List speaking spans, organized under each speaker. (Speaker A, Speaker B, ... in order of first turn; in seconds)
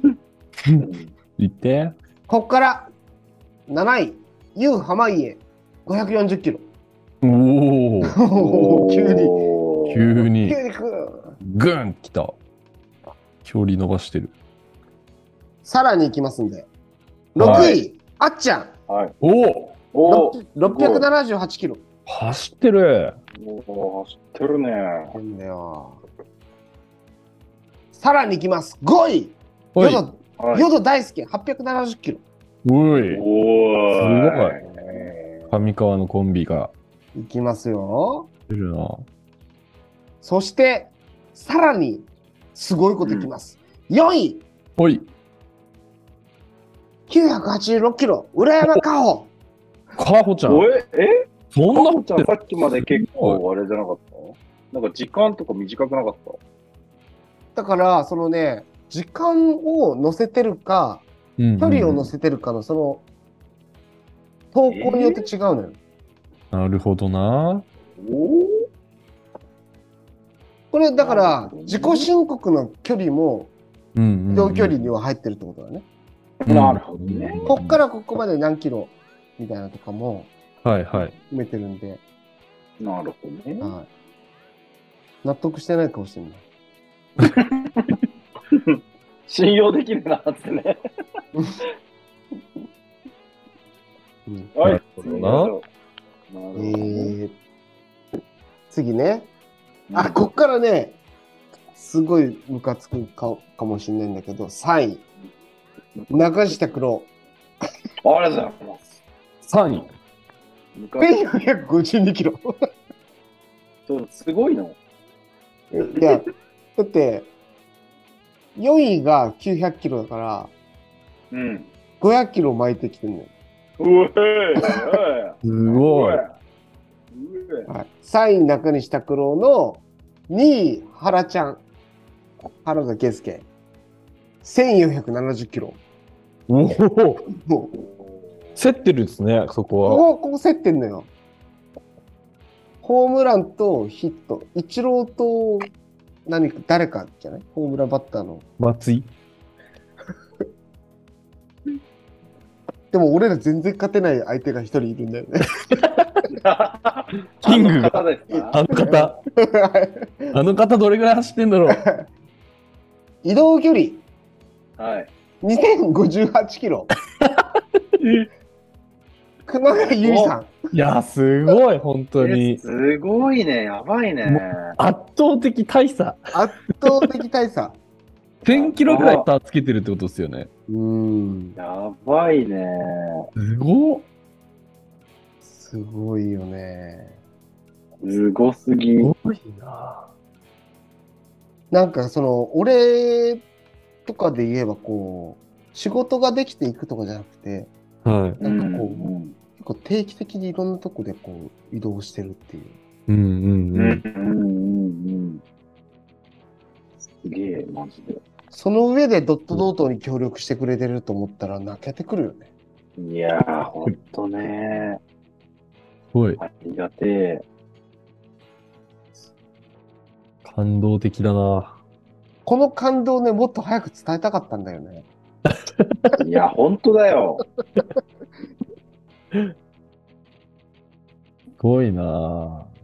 Speaker A: 0.8-1.1, 8.3-10.0, 17.4-17.8, 18.9-19.1, 19.9-21.1, 23.4-25.2, 30.4-30.7, 33.1-35.1, 43.0-43.3, 50.5-56.4, 64.7-65.2, 68.0-68.6, 71.0-72.1, 76.4-77.5, 82.8-83.7, 87.2-87.9, 88.5-90.8, 94.6-95.6, 96.3-97.1, 99.9-100.2, 106.0-106.4, 108.0-108.9, 110.8-111.4, 113.9-114.8, 115.9-116.2, 121.3-121.7, 123.8-126.3, 127.1-127.7, 156.3-158.6, 164.8-165.1, 170.0-170.3, 172.2-174.8, 178.5-179.3, 181.6-183.3, 188.0-189.1, 198.4-199.3, 203.8-205.4, 207.1-208.2, 213.0-215.0, 216.4-217.4, 226.2-227.4
Speaker B: 1.4-2.0, 7.2-8.2, 9.9-10.6, 11.4-12.4, 13.4-14.3, 17.4-17.8, 19.2-19.8, 22.1-23.2, 29.8-30.0, 32.6-33.2, 33.9-34.6, 35.5-36.7, 38.5-39.0, 44.8-45.1, 50.0-50.7, 51.5-53.4, 61.4-62.1, 66.5-67.6, 74.0-74.9, 76.5-77.8, 80.6-81.1, 94.6-95.5, 109.5-109.9, 125.4-126.2, 136.5-137.2, 138.6-140.0, 148.6-149.1, 155.7-156.1, 157.4-159.2, 160.3-161.8, 170.7-172.6, 174.2-176.3, 178.4-180.5, 183.4-184.0, 189.0-190.1, 198.0-198.4, 203.1-204.0, 216.1-216.4, 220.4-221.8, 225.5-226.1, 231.6-232.7
Speaker C: 2.3-2.9, 3.7-6.7, 8.0-9.4, 10.2-11.3, 15.6-16.7, 17.3-18.7, 20.1-21.8, 25.1-26.0, 27.9-32.2, 34.6-35.1, 37.1-38.3, 40.2-44.4, 47.1-49.3, 57.5-61.0, 61.6-63.0, 64.5-65.8, 70.7-73.5, 74.3-75.9, 77.5-80.3, 81.3-82.0, 83.6-83.9, 85.2-86.4, 94.2-94.5, 96.5-97.3, 98.7-99.3, 99.9-101.0, 101.7-105.0, 106.1-107.1, 111.0-112.5, 115.7-117.3, 118.6-120.5, 122.0-123.3, 124.6-125.0, 127.7-131.6, 132.6-133.5, 134.4-135.8, 137.4-137.8, 139.9-141.1, 142.8-145.7, 146.2-148.4, 152.9-155.8, 158.7-160.3, 161.7-162.1, 163.2-164.0, 165.4-166.9, 169.5-170.5, 176.3-177.8, 180.7-181.6, 185.4-187.2, 191.7-193.4, 194.1-197.7, 198.4-202.8, 208.5-212.5, 222.5-225.0